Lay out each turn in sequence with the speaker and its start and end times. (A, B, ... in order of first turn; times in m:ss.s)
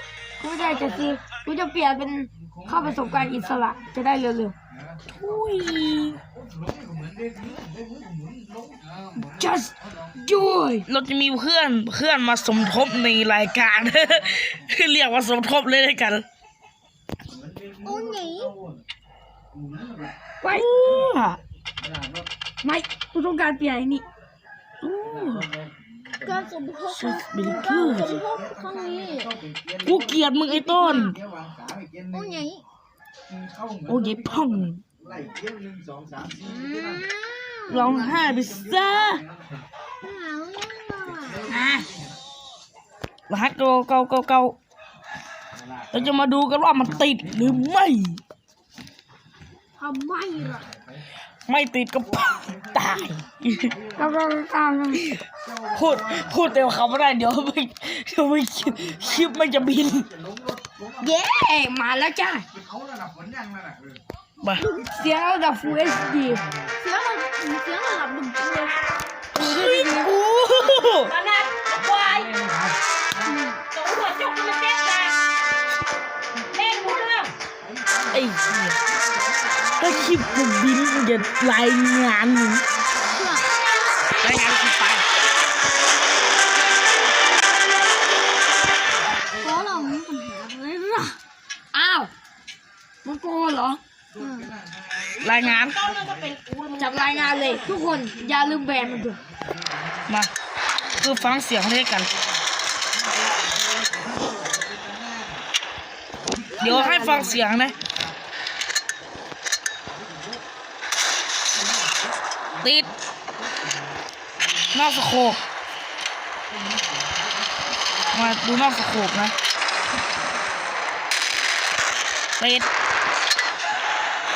0:00.4-0:04.5 A
0:00.6-0:01.2 B
0:05.2-0:06.2 C
0:07.0-0:07.6 D
0:09.2-0:10.9 A
0:10.9-0:16.2 C
0:17.8-0:18.6 E
0:20.4-0:20.7 A
0:20.5-0:21.4 C
0:22.6-0:24.0 A
0:24.8-0:25.5 C
0:26.2-0:29.4 E
0:26.9-0:28.2 C
0:29.8-0:31.2 C
0:32.1-0:32.6 E
0:33.9-0:34.8 C
0:35.2-0:36.4 D
0:36.4-0:37.9 E
0:37.7-0:39.2 C
0:40.0-0:41.5 E
0:41.4-0:41.9 A
0:43.3-0:44.6 C
0:45.9-0:48.2 C
0:49.8-0:50.7 E
0:51.5-0:53.8 C
0:54.0-0:55.1 A
0:55.7-1:00.1 C
1:01.0-1:02.4 A
1:03.2-1:03.5 D
1:04.6-1:06.4 A
1:06.8-1:08.8 E
1:09.3-1:10.1 A
1:09.4-1:11.1 C
1:10.8-1:12.4 B
1:13.2-1:13.6 E
1:13.7-1:15.2 B
1:16.5-1:17.4 B
1:18.1-1:18.8 C
1:19.8-1:22.6 C
1:23.1-1:23.5 E
1:24.2-1:25.0 C
1:29.3-1:31.0 E
1:29.4-1:29.9 A
1:30.5-1:31.1 A
1:31.7-1:32.1 A
1:33.0-1:33.8 A
1:34.2-1:34.5 E
1:35.2-1:35.8 C
1:35.2-1:37.8 B
1:36.8-1:39.2 A
1:40.9-1:42.1 C
1:46.6-1:47.8 C
1:46.6-1:47.4 A
1:52.6-1:52.9 C
1:54.7-1:55.4 C
1:58.1-1:59.3 C
2:02.4-2:02.7 C